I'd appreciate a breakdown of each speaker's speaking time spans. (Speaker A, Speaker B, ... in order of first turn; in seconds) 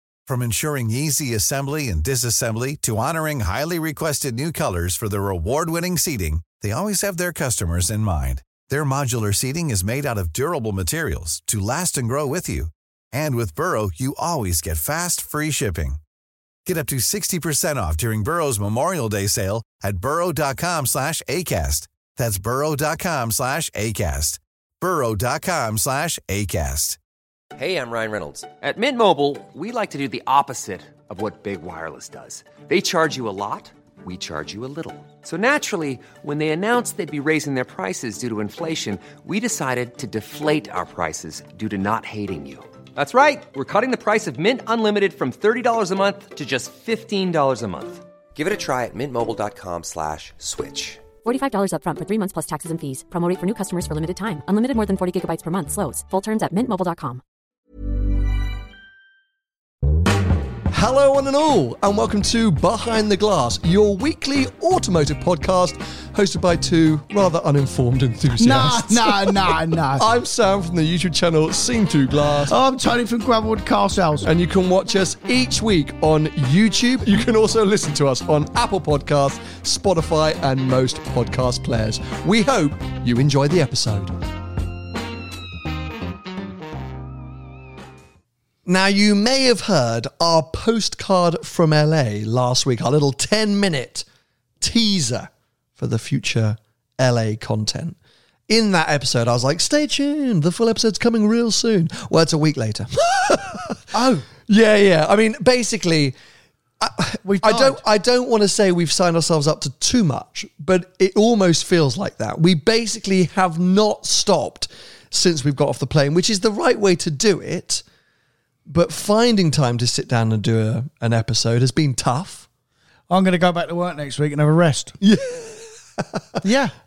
Speaker A: 0.3-16.0, 16.6-27.0
Speaker B: 27.5-51.0
Speaker C: 51.2-57.2
Speaker D: 60.7-69.4, 70.0-72.5, 74.2-84.1, 88.7-94.0, 94.6-98.0, 98.5-103.8, 104.4-106.2, 106.8-117.8, 118.7-122.5, 125.0-126.4
Speaker E: 68.4-70.0, 72.5-74.3, 103.9-104.2, 107.2-107.8, 123.1-125.0, 126.4-126.7